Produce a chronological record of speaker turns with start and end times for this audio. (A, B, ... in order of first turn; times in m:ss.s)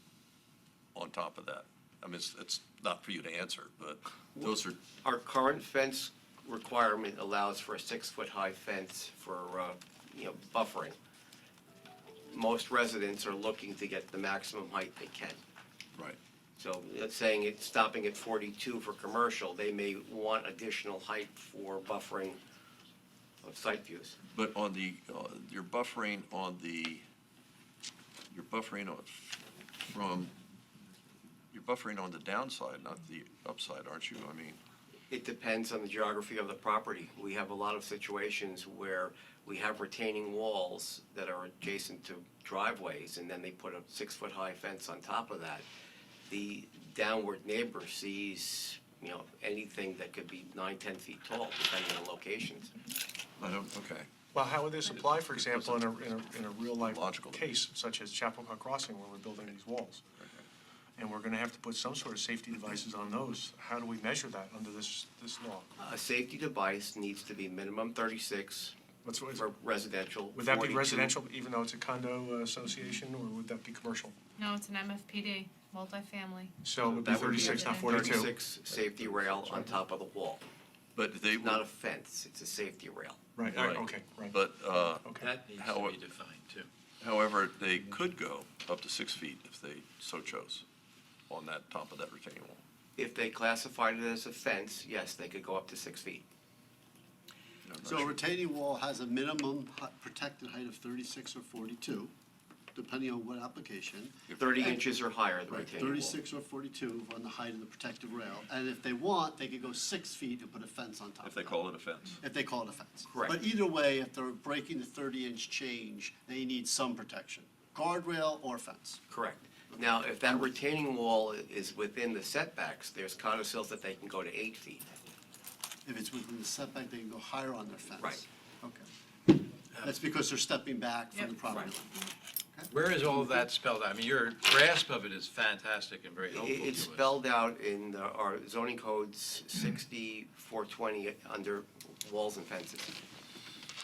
0:00.9-0:04.8 A
0:04.4-0:11.0 B
0:12.3-0:15.4 B
0:16.6-0:22.4 B
0:23.4-0:24.2 B
0:24.3-0:27.0 A
0:28.3-0:30.3 A
0:31.5-0:34.6 A
0:35.1-0:45.6 B
0:46.3-0:52.7 B
0:53.4-0:54.1 A
0:54.3-1:00.0 C
0:55.0-0:55.8 A
0:56.8-0:57.5 A
1:00.2-1:00.4 A
1:01.0-1:05.7 C
1:05.8-1:08.8 B
1:09.0-1:09.5 C
1:09.3-1:11.1 B
1:10.3-1:14.1 C
1:14.4-1:16.6 D
1:16.6-1:18.3 C
1:16.8-1:20.4 B
1:17.2-1:18.0 D
1:20.9-1:21.6 A
1:21.4-1:23.2 B
1:23.4-1:24.4 C
1:23.4-1:26.0 A
1:25.0-1:25.3 C
1:25.2-1:26.7 E
1:27.0-1:30.6 A
1:31.3-1:32.6 A
1:33.0-1:36.2 B
1:37.6-1:38.2 A
1:37.8-1:42.1 F
1:42.7-1:44.8 F
1:44.4-1:46.2 B
1:45.5-1:51.6 F
1:51.2-1:52.2 A
1:52.2-1:59.0 F
1:53.1-1:53.4 B
1:59.1-2:04.9 B
2:05.8-2:08.9 F
2:09.8-2:13.4 F
2:11.4-2:11.7 B
2:12.7-2:17.0 E
2:16.2-2:22.9 B